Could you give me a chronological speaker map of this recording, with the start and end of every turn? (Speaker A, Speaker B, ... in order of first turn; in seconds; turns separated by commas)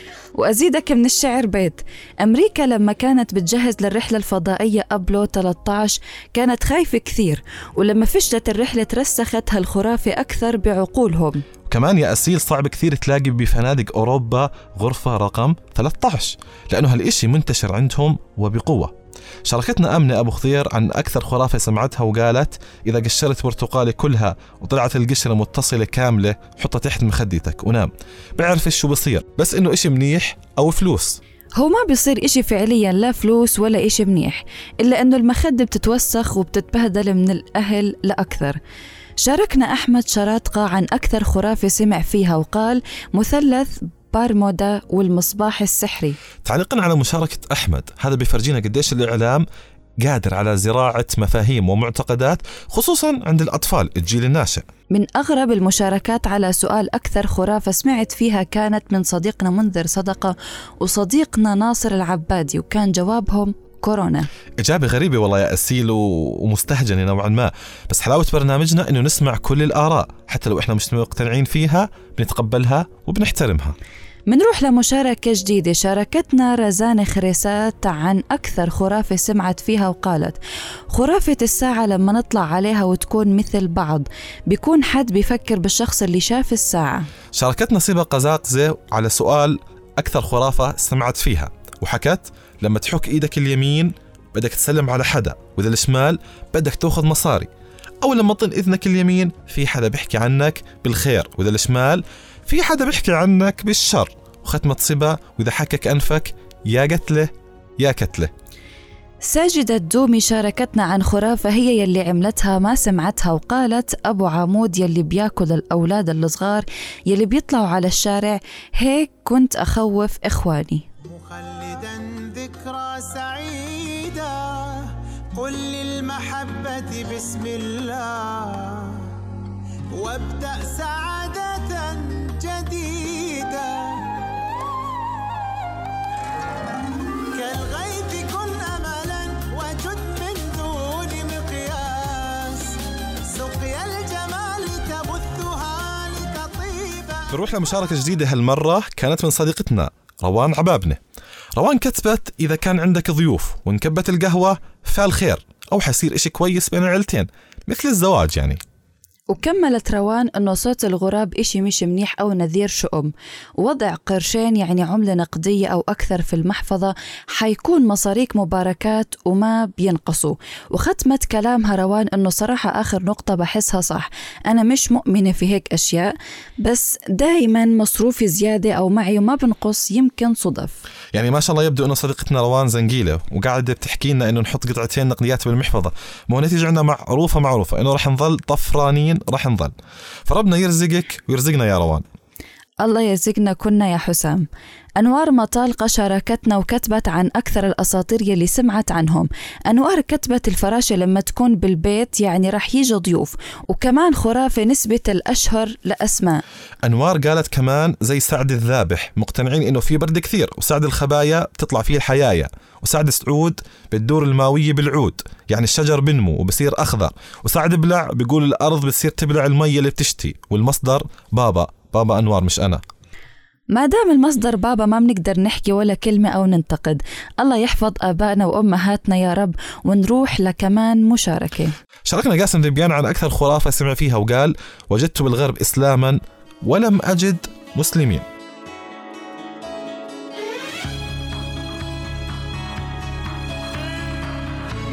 Speaker A: 0.4-11.4, Speaker B: 11.7-18.9, Speaker B: 19.5-31.2, Speaker A: 31.6-38.6, Speaker A: 39.2-46.2, Speaker B: 46.5-49.5, Speaker B: 50.0-54.6, Speaker A: 54.9-64.3, Speaker B: 64.6-73.8, Speaker A: 74.3-80.4, Speaker A: 80.9-87.1, Speaker B: 87.3-97.5, Speaker B: 98.0-108.3, Speaker A: 109.2-120.8, Speaker C: 121.0-129.2, Speaker C: 129.9-134.1, Speaker C: 137.3-147.3, Speaker B: 147.3-151.0, Speaker B: 151.6-158.6, Speaker A: 159.3-180.8, Speaker B: 181.1-189.7, Speaker B: 190.3-192.0, Speaker A: 192.8-194.4, Speaker A: 195.0-206.4, Speaker B: 206.9-222.8, Speaker A: 223.8-231.7, Speaker B: 232.1-238.2